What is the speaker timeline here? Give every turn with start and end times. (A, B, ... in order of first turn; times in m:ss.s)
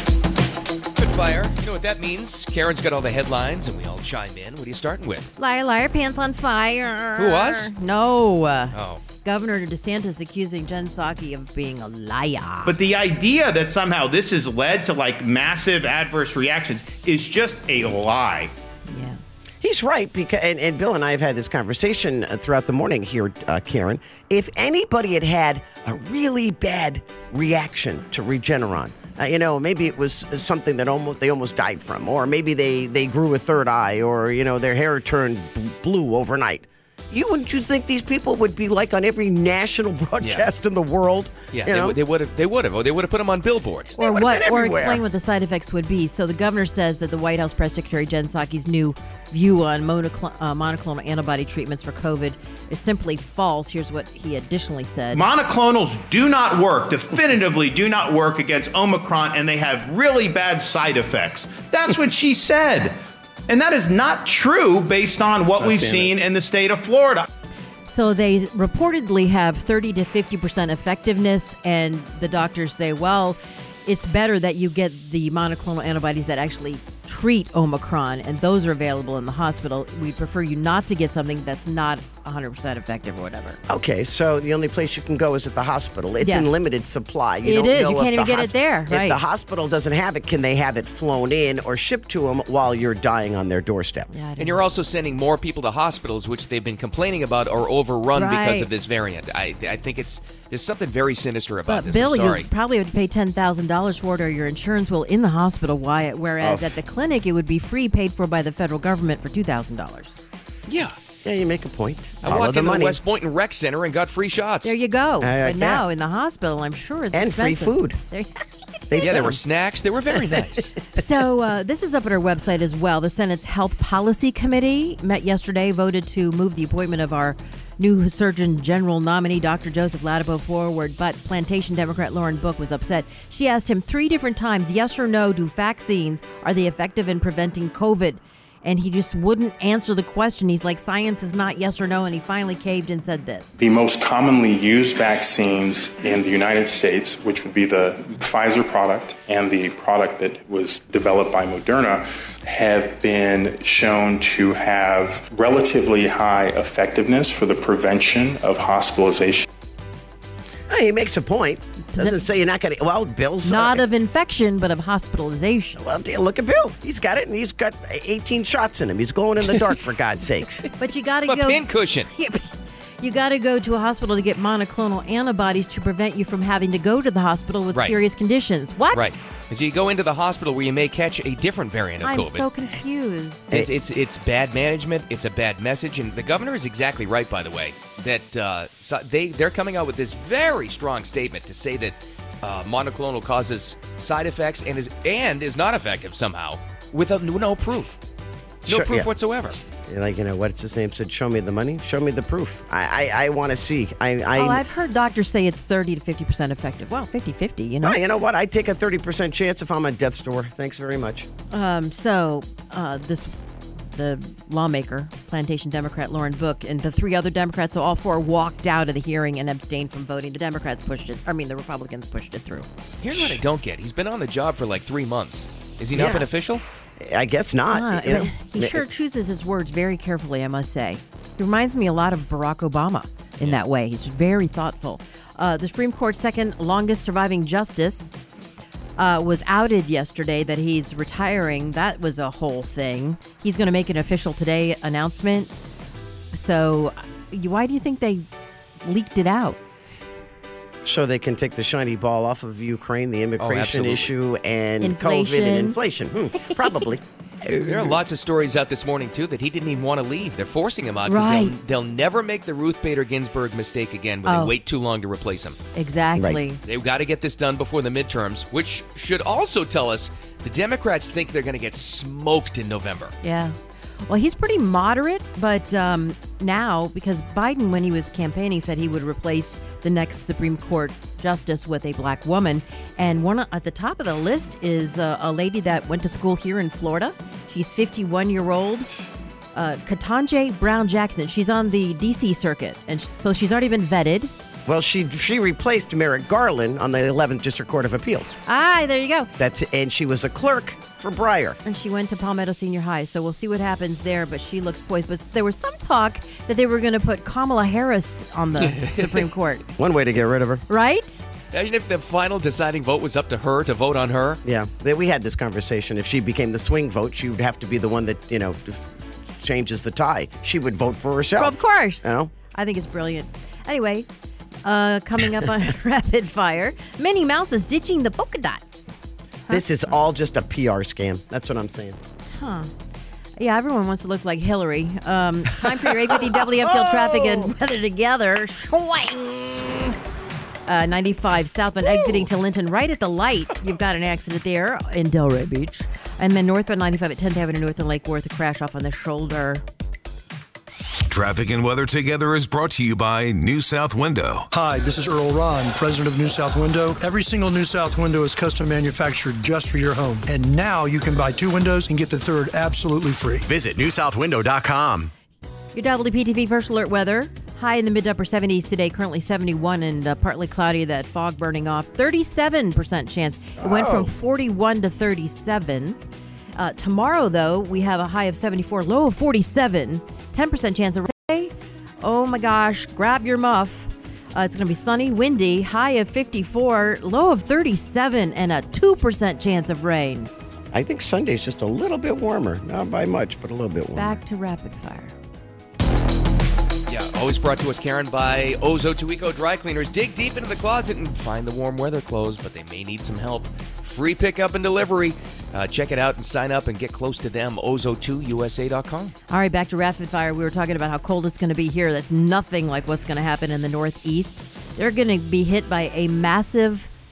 0:01.0-0:05.3 A
0:05.4-0:12.7 B
0:07.2-0:07.7 A
0:08.7-0:09.0 A
0:12.6-0:18.5 C
0:18.9-0:19.2 B
0:19.6-0:42.0 D
0:40.2-0:40.5 A
0:41.5-0:43.9 A
0:43.9-0:45.0 D
0:44.0-0:55.2 B
0:55.1-1:07.3 C
1:07.8-1:23.6 B
1:23.7-1:34.1 D
1:26.2-1:26.5 B
1:27.4-1:29.2 B
1:34.1-1:34.6 B
1:34.4-1:42.5 A
1:38.1-1:38.7 B
1:41.7-1:50.2 B
1:46.4-1:46.8 D
1:50.7-1:51.0 A
1:51.2-1:53.0 D
1:52.2-1:54.7 A
1:54.6-1:58.4 B
1:55.2-1:55.8 D
1:57.1-1:58.0 D
1:58.9-1:59.4 D
1:59.0-2:00.7 A
2:00.9-2:23.6 B
2:23.6-2:39.4 E
2:40.7-2:43.8 D
2:41.9-2:42.2 B
2:43.4-2:45.8 B
2:45.8-2:50.6 D
2:50.8-2:59.1 B
2:51.3-2:52.1 A
2:57.7-2:58.0 A
2:58.9-3:02.5 A
3:02.0-3:03.6 B
3:03.5-3:18.0 A
3:18.7-3:19.1 D
3:18.7-3:19.6 A
3:19.8-3:24.6 D
3:24.3-3:28.0 B
3:27.8-3:31.3 D
3:31.5-3:33.3 B
3:33.9-3:42.7 B
3:43.0-3:46.6 A
3:43.1-3:43.4 D
3:45.9-3:46.2 D
3:47.0-3:48.9 D
3:47.7-3:58.1 B
3:59.0-4:05.5 B
4:06.3-4:08.2 B
4:08.8-4:09.6 B
4:10.8-4:17.0 D
4:13.4-4:14.1 A
4:14.8-4:15.8 B
4:17.4-4:17.9 B
4:17.6-4:25.6 A
4:21.1-4:21.5 B
4:24.2-4:24.5 B
4:25.7-4:26.6 B
4:26.2-4:26.4 D
4:26.6-4:33.1 A
4:33.2-4:48.9 B
4:49.5-4:54.3 B
4:54.6-4:58.4 D
4:58.4-4:59.3 B
4:59.4-5:01.6 D
5:01.6-5:09.6 B
5:08.6-5:09.3 A
5:09.8-5:10.6 D
5:10.7-5:11.2 B
5:11.5-5:14.4 A
5:14.4-5:22.3 D
5:21.4-5:24.1 B
5:24.6-5:28.8 B
5:29.5-5:32.0 D
5:32.4-5:32.7 B
5:33.4-5:39.9 B
5:36.0-5:37.5 D
5:40.6-5:49.6 B
5:51.1-5:54.5 F
5:54.5-6:03.5 G
6:03.5-6:05.1 D
6:05.7-6:16.0 B
6:13.6-6:14.1 D
6:16.5-6:30.3 B
6:30.7-6:34.2 D
6:33.9-6:35.1 B
6:36.9-6:49.1 A
6:49.3-6:56.9 B